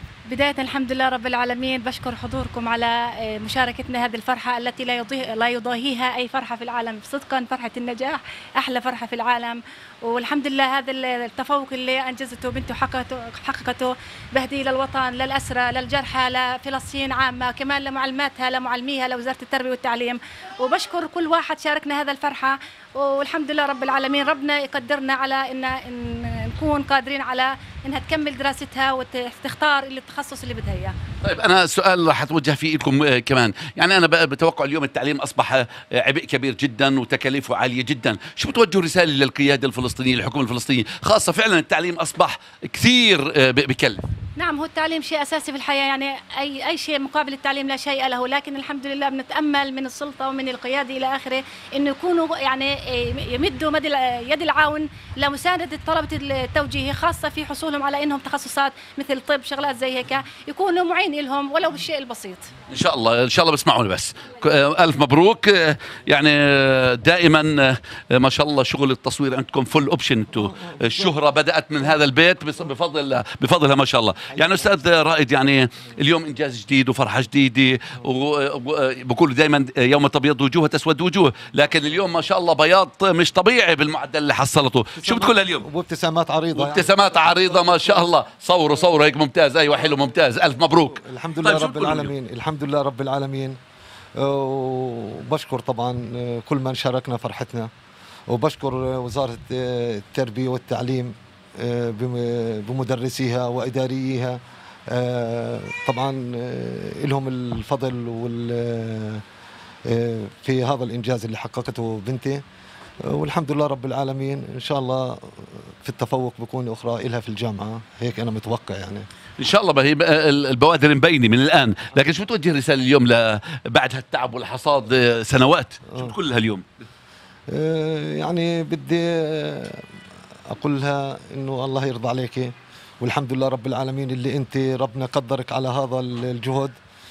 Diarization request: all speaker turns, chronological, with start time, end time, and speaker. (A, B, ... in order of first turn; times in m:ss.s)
0:00.3-0:30.9 A
0:31.2-0:44.1 B
0:44.4-1:02.5 A
1:02.7-1:25.6 B
1:10.4-1:11.2 C
1:14.3-1:14.7 C
1:25.0-1:28.1 C
1:26.5-1:32.1 B
1:29.7-1:33.6 C
1:34.2-1:37.7 C
1:38.3-1:49.2 C
1:49.9-1:52.4 C
1:53.0-1:59.0 C
1:59.4-2:06.7 B
2:05.9-2:06.2 C
2:07.5-2:09.8 C
2:10.5-2:16.8 C